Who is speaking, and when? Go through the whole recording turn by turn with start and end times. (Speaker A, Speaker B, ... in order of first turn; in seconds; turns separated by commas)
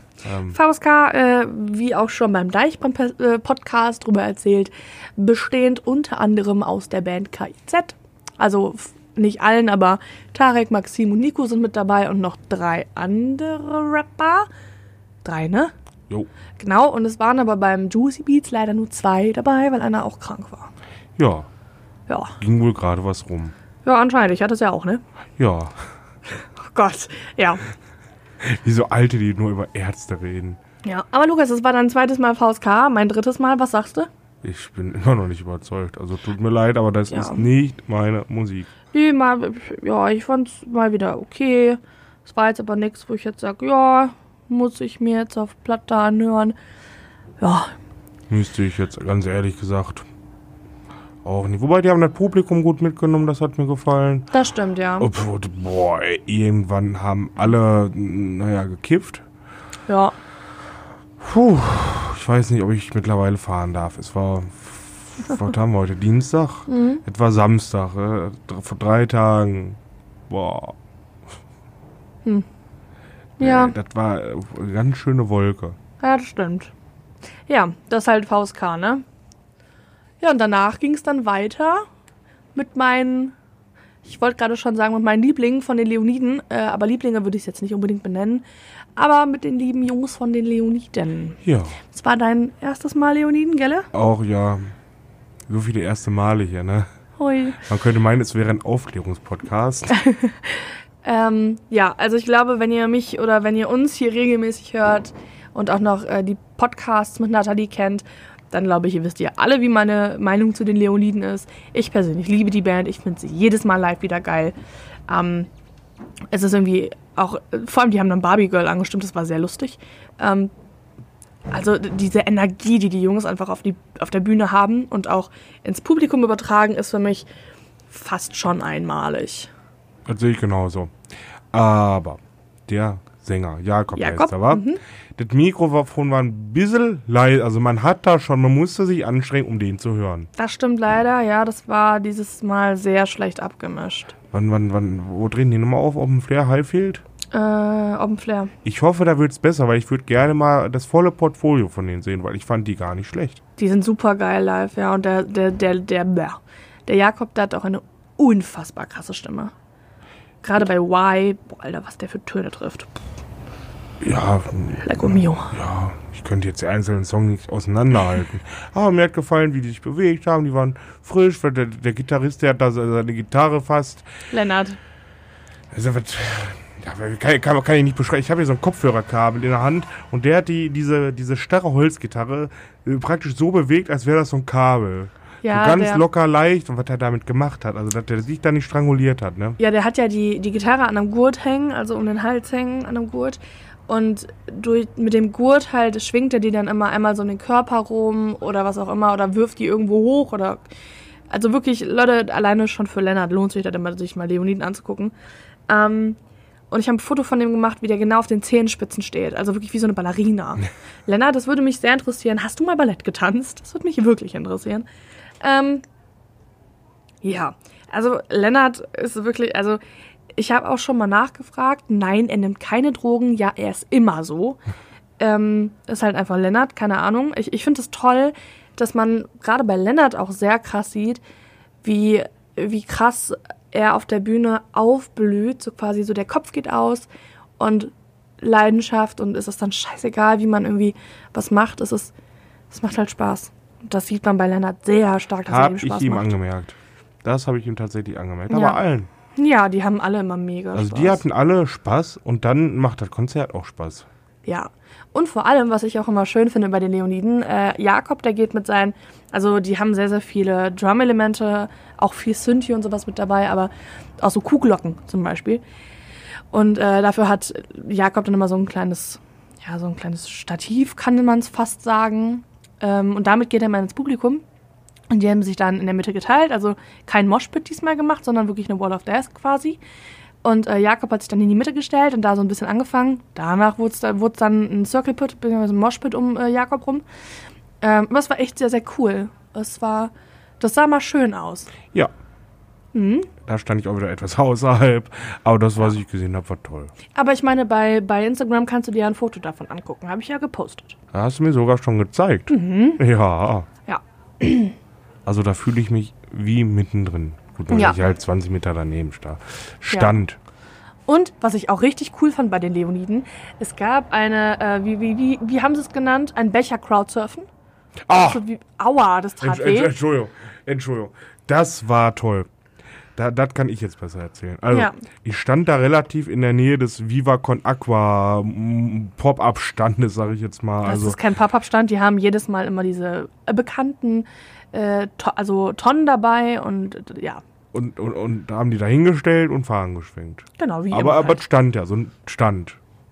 Speaker A: 0.2-0.6, Speaker B: 0.5-14.5, Speaker B: 15.2-15.7, Speaker B: 16.6-20.7, Speaker A: 21.2-21.5, Speaker B: 22.1-22.4, Speaker A: 22.4-23.5, Speaker B: 23.8-25.0, Speaker A: 25.4-25.8, Speaker B: 26.4-27.6, Speaker A: 28.4-30.6, Speaker B: 30.8-34.1, Speaker A: 34.4-38.7, Speaker B: 37.1-37.5, Speaker B: 38.9-46.5, Speaker B: 47.4-47.7, Speaker A: 48.3-50.1, Speaker A: 51.2-54.3, Speaker B: 54.3-55.1, Speaker A: 55.0-59.2, Speaker B: 59.9-60.1, Speaker A: 61.2-70.8, Speaker B: 66.7-67.0, Speaker B: 73.4-73.8, Speaker A: 73.4-75.8, Speaker B: 76.0-76.7, Speaker B: 77.5-79.0, Speaker B: 80.2-81.8, Speaker B: 82.5-83.3, Speaker B: 84.0-88.4, Speaker B: 89.0-93.9, Speaker A: 91.4-91.8, Speaker A: 93.9-94.7, Speaker A: 95.5-96.9, Speaker B: 97.2-97.6, Speaker A: 97.6-100.0, Speaker B: 99.9-114.5, Speaker B: 115.1-115.5, Speaker B: 116.3-120.5, Speaker B: 121.5-127.3, Speaker B: 127.9-129.5, Speaker A: 130.1-130.9, Speaker A: 131.5-134.6, Speaker B: 133.9-134.8, Speaker A: 135.2-140.3, Speaker B: 140.4-144.1, Speaker A: 144.3-147.0, Speaker B: 147.3-148.5, Speaker A: 148.6-153.4, Speaker B: 153.6-159.5, Speaker B: 160.4-163.0, Speaker A: 164.0-174.1, Speaker B: 164.8-165.5, Speaker B: 174.3-174.8, Speaker A: 175.7-189.6, Speaker B: 185.4-186.0, Speaker B: 189.6-200.6, Speaker B: 201.3-205.1, Speaker B: 205.7-206.2, Speaker B: 206.7-214.8, Speaker B: 215.4-215.8, Speaker B: 217.2-219.8, Speaker B: 220.3-224.6, Speaker B: 225.2-231.2, Speaker B: 231.8-237.1, Speaker B: 237.6-242.1, Speaker B: 242.7-246.3, Speaker A: 245.5-249.1, Speaker B: 248.5-248.8, Speaker B: 249.3-251.2, Speaker A: 250.7-254.1, Speaker B: 254.4-265.6, Speaker B: 266.5-274.4, Speaker B: 275.1-279.8, Speaker B: 280.4-287.0, Speaker B: 287.8-291.7, Speaker B: 292.9-293.3, Speaker A: 293.4-296.9, Speaker B: 297.1-301.0, Speaker A: 301.1-303.7, Speaker B: 302.5-303.0, Speaker B: 303.9-304.7, Speaker A: 305.2-310.4, Speaker B: 307.7-308.0, Speaker B: 309.9-310.2, Speaker B: 311.1-317.5, Speaker A: 318.1-318.4, Speaker B: 318.2-319.9, Speaker A: 319.4-322.5, Speaker A: 323.1-331.2, Speaker B: 324.7-325.0, Speaker B: 330.8-337.4, Speaker A: 337.7-342.8, Speaker B: 340.6-341.4